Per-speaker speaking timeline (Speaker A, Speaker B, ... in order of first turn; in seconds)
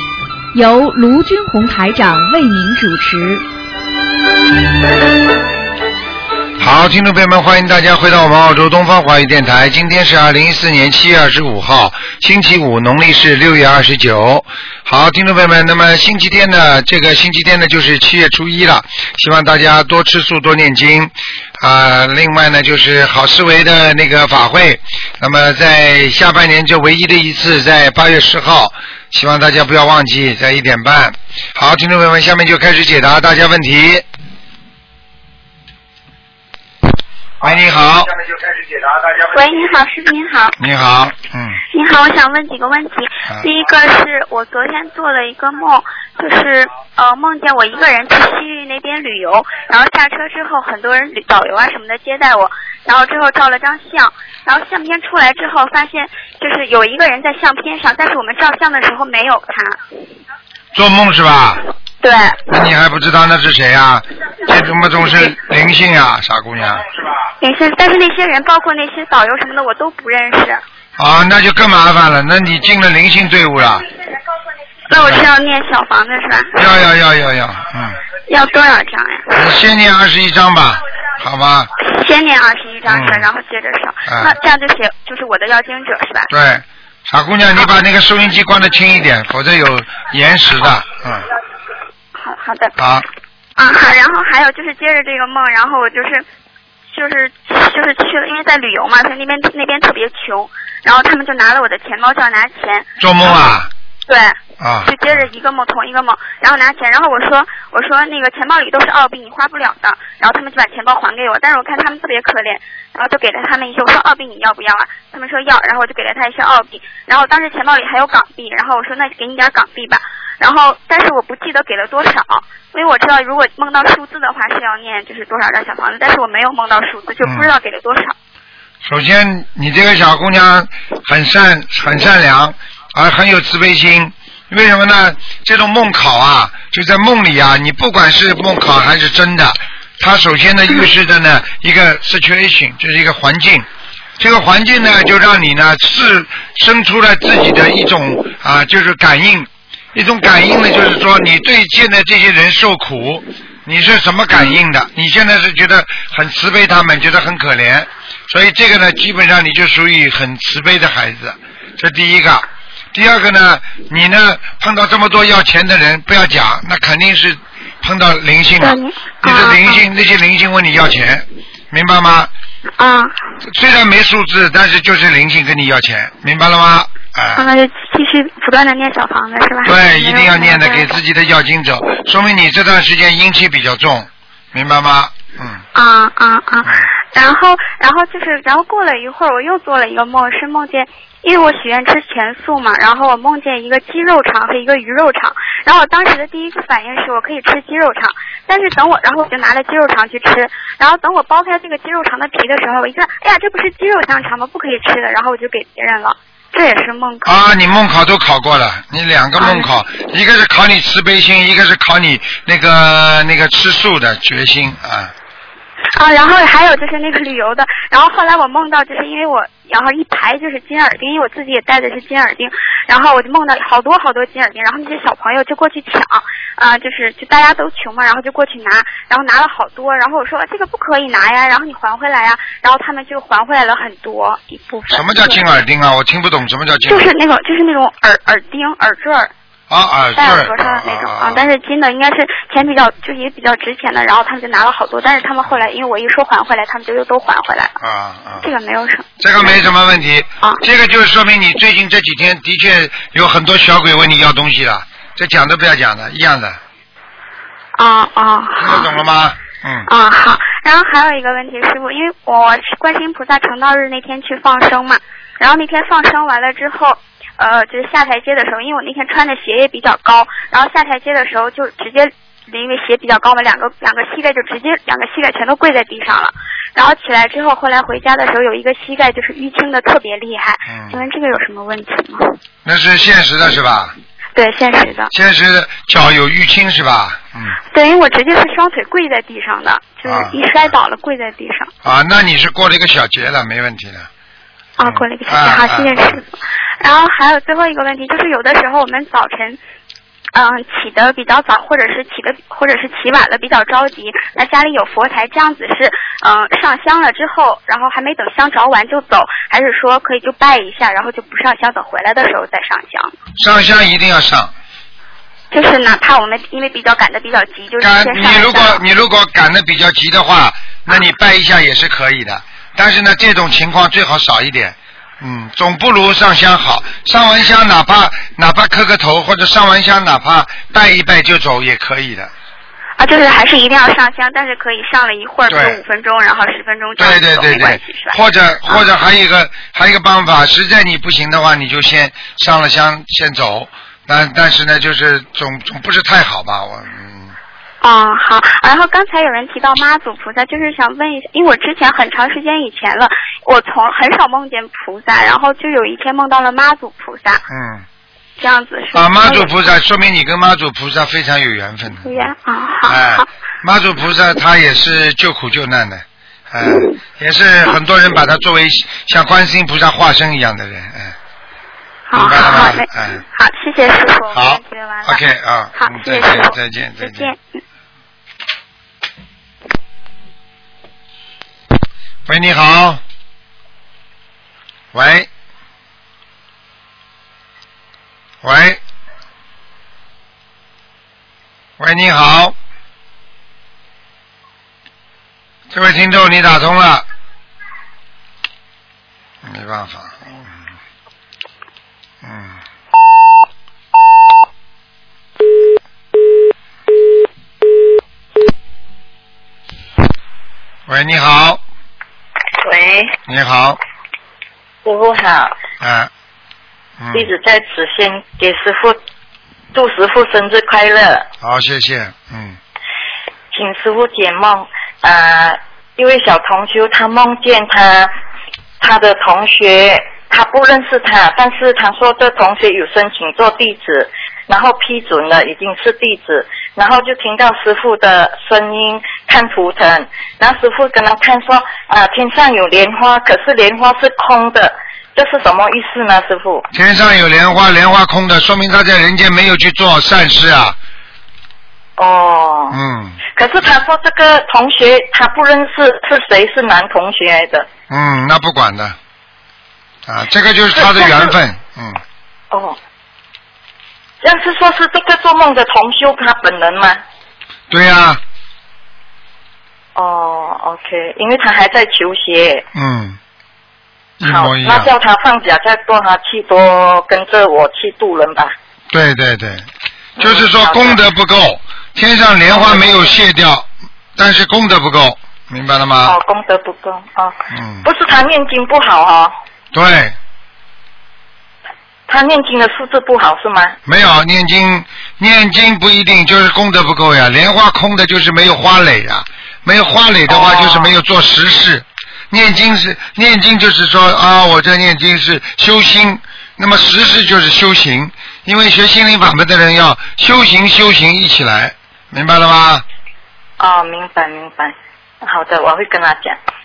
Speaker A: 0.5-3.4
Speaker B: 6.6-34.0, 37.4-38.2, 40.6-41.6, 60.7-61.6, 62.5-66.9, 71.0-73.9, 74.9-75.3, 76.6-78.0, 79.3-81.7, 82.9-83.3, 84.1-84.3, 86.3-91.3, 92.8-93.1, 103.0-103.7, 104.6-105.3, 127.2-127.5, 128.8-143.7, 144.2-172.3, 173.4-177.5, 179.7-185.6, 207.2-215.1, 234.9-237.1, 239.7-241.4, 247.8-248.5, 249.2-256.6, 258.6-259.9, 280.7-281.0, 282.6-283.9, 285.1-287.6, 290.1-290.4, 291.8-294.1, 294.8-296.2, 313.4-314.5, 317.8-332.3, 335.5-335.8, 337.0-347.3, 357.5-357.9, 358.9-362.1, 362.9-371.1, 372.2-373.2, 374.3-377.3, 382.3-383.0, 384.9-385.3, 388.4-388.8, 391.8-392.6, 395.7-397.1, 399.4-400.5, 402.2-402.6, 410.9-411.6, 413.3-413.8, 415.8-416.1, 417.0-417.3, 421.4-422.6, 446.7-450.8, 452.7-453.2, 457.9-459.0, 460.1-462.0, 467.7-468.2, 472.7-473.2, 474.2-474.9, 478.9-486.2, 487.5-487.9, 489.7-490.2, 493.9-512.9
Speaker C: 39.1-40.6, 41.7-59.8, 62.0-62.5, 67.4-70.6, 74.9-76.6, 78.3-79.4, 81.8-86.3, 92.2-92.8, 93.6-96.2, 96.9-103.5, 104.1-128.2, 168.6-169.8, 172.8-173.2, 177.3-181.0, 185.7-207.3, 209.4-209.7, 215.9-235.4, 236.9-239.3, 240.2-247.8, 248.4-249.6, 257.8-259.0, 259.9-282.4, 284.4-285.1, 287.7-291.7, 294.8-299.6, 300.3-313.1, 315.5-318.8, 333.0-338.9, 347.8-357.4, 358.4-359.7, 362.0-363.3, 366.6-367.0, 372.1-375.2, 375.8-377.4
Speaker D: 412.6-413.1, 414.9-415.6, 417.1-419.0, 419.7-421.3, 423.5-428.1, 428.8-446.7, 452.0-452.8, 453.4-457.7, 460.8-461.3, 462.5-462.8, 464.2-467.0, 470.0-472.6, 474.2-478.5, 480.2-481.0, 482.5-483.2, 486.0-489.4, 492.1-493.8, 500.3-500.9, 513.6-516.4